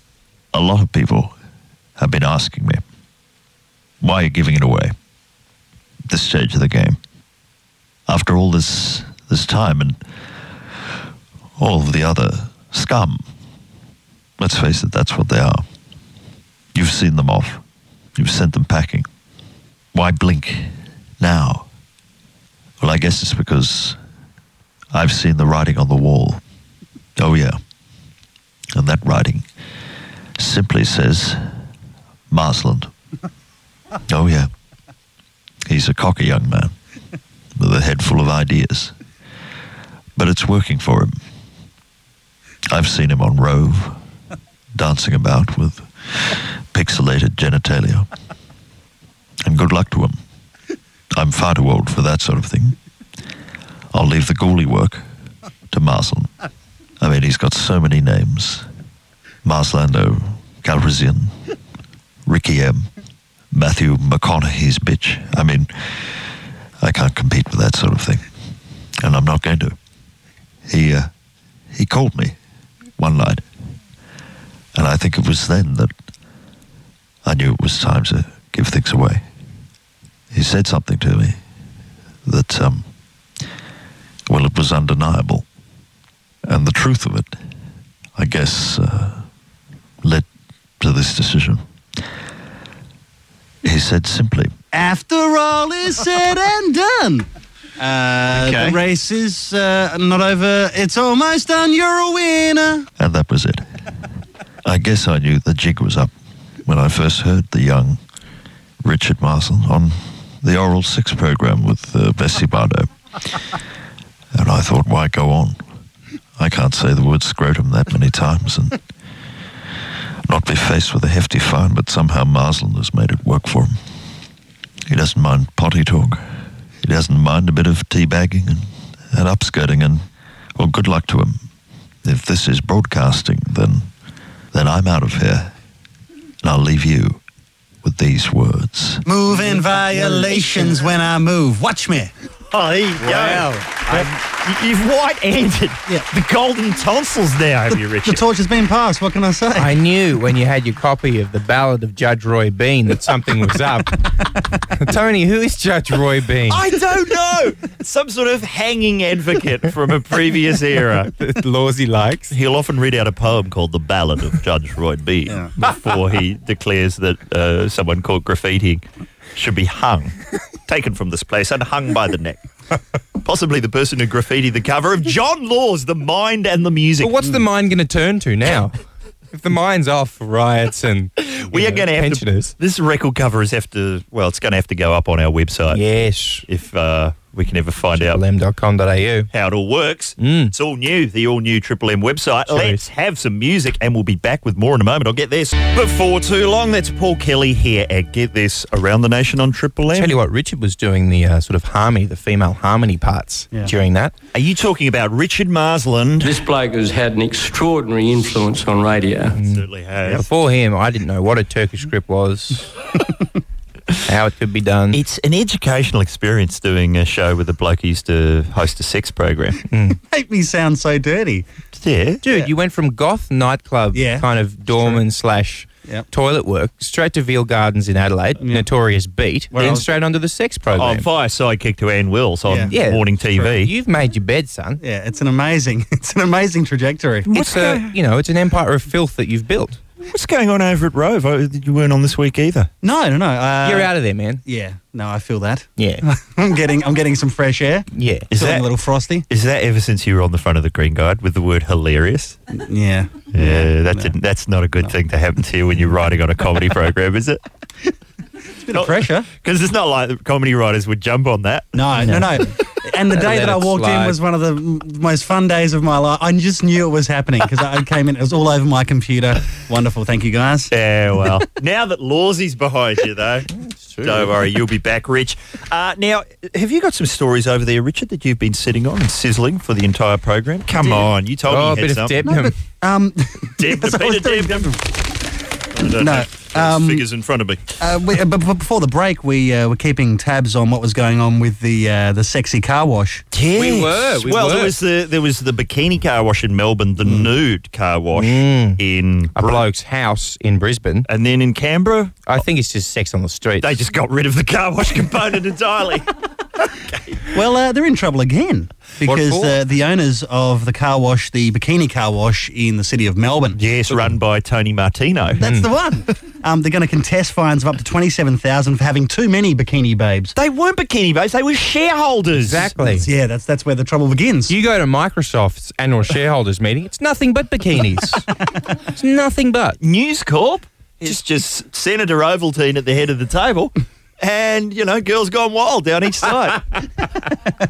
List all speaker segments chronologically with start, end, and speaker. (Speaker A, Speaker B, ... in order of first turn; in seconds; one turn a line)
Speaker A: 0.5-1.4
Speaker A: 2.0-2.8
Speaker A: 4.0-4.9
Speaker A: 6.1-7.0
Speaker A: 8.1-10.0
Speaker A: 11.6-13.3
Speaker A: 14.4-15.6
Speaker A: 16.7-17.6
Speaker A: 18.2-19.1
Speaker A: 19.9-21.7
Speaker A: 22.8-24.0
Speaker A: 24.9-26.4
Speaker A: 27.2-27.6
Speaker A: 28.7-29.5
Speaker A: 30.4-31.5
Speaker A: 32.3-32.9
Speaker A: 34.1-34.5
Speaker A: 35.7-36.7
Speaker A: 37.6-39.0
Speaker A: 40.2-41.2
Speaker A: 42.7-44.0
Speaker A: 44.8-48.1
Speaker A: 49.4-50.2
Speaker A: 51.1-52.8
Speaker A: 53.9-55.0
Speaker A: 55.7-56.3
Speaker A: 57.0-58.7
Speaker A: 59.4-61.4
Speaker A: 62.3-62.9
Speaker A: 63.5-66.1
Speaker A: 66.8-68.3
Speaker A: 69.0-69.8
Speaker A: 70.7-71.1
Speaker A: 71.7-72.4
Speaker A: 73.0-73.4
Speaker A: 74.8-75.9
Speaker A: 77.2-79.2
Speaker A: 80.3-81.4
Speaker A: 82.2-82.9
Speaker A: 84.3-85.5
Speaker A: 86.5-87.4
Speaker A: 88.2-89.2
Speaker A: 90.8-91.6
Speaker A: 93.6-94.5
Speaker B: 94.7-97.3
Speaker B: 97.8-102.9
Speaker C: 98.3-98.8
Speaker A: 103.0-103.7
Speaker A: 104.7-106.1
Speaker A: 106.7-108.0
Speaker A: 108.8-112.9
Speaker A: 114.3-115.6
Speaker A: 116.4-118.8
Speaker A: 120.3-123.8
Speaker A: 124.9-126.2
Speaker A: 126.8-130.0
Speaker A: 130.6-131.4
Speaker A: 132.0-133.9
Speaker A: 134.5-135.5
Speaker A: 136.4-137.2
Speaker A: 137.8-139.1
Speaker B: 139.1-142.1
Speaker D: 139.4-140.7
Speaker C: 142.5-148.2
Speaker D: 143.0-144.0
Speaker B: 148.1-149.7
Speaker D: 149.6-156.6
Speaker C: 156.5-161.1
Speaker D: 161.2-162.3
Speaker C: 162.3-168.8
Speaker C: 169.4-170.2
Speaker C: 170.7-172.4
Speaker C: 173.2-177.2
Speaker D: 177.0-178.8
Speaker D: 179.3-182.5
Speaker C: 181.2-185.8
Speaker D: 185.7-186.4
Speaker C: 186.5-188.2
Speaker D: 187.9-189.3
Speaker C: 189.3-200.1
Speaker D: 190.2-190.5
Speaker D: 192.5-192.8
Speaker D: 199.9-204.1
Speaker C: 204.3-206.4
Speaker E: 206.2-209.4
Speaker D: 209.3-212.7
Speaker C: 209.4-210.2
Speaker D: 214.1-215.0
Speaker C: 214.9-219.6
Speaker D: 219.7-220.0
Speaker B: 220.1-221.5
Speaker C: 221.8-222.2
Speaker D: 222.2-231.1
Speaker B: 223.9-225.0
Speaker B: 228.4-228.7
Speaker B: 229.5-229.8
Speaker C: 230.7-233.7
Speaker B: 232.5-232.7
Speaker D: 232.7-234.8
Speaker B: 234.8-237.3
Speaker C: 237.3-237.9
Speaker D: 237.3-239.8
Speaker C: 240.0-242.7
Speaker B: 242.8-243.9
Speaker D: 243.6-244.4
Speaker B: 244.4-249.3
Speaker D: 245.8-246.0
Speaker D: 247.9-248.3
Speaker C: 248.3-248.7
Speaker C: 249.3-252.4
Speaker B: 252.6-254.1
Speaker C: 253.3-257.4
Speaker B: 258.6-259.3
Speaker C: 258.7-261.8
Speaker B: 261.8-270.7
Speaker D: 263.1-264.2
Speaker C: 270.7-273.5
Speaker D: 273.6-274.3
Speaker C: 274.0-282.3
Speaker D: 281.5-282.5
Speaker B: 282.3-284.9
Speaker C: 283.6-284.7
Speaker C: 285.8-287.8
Speaker B: 285.9-287.1
Speaker B: 287.8-293.2
Speaker C: 293.3-299.6
Speaker D: 293.6-294.7
Speaker B: 297.1-297.3
Speaker D: 298.2-298.8
Speaker D: 299.4-301.1
Speaker C: 301.1-302.3
Speaker D: 302.3-303.8
Speaker C: 303.6-306.1
Speaker B: 307.3-313.6
Speaker D: 309.0-309.6
Speaker C: 313.6-315.4
Speaker B: 315.4-320.3
Speaker D: 315.4-315.7
Speaker C: 320.4-322.7
Speaker D: 322.4-323.1
Speaker B: 322.8-324.6
Speaker D: 324.5-328.3
Speaker D: 328.9-329.8
Speaker C: 329.8-336.7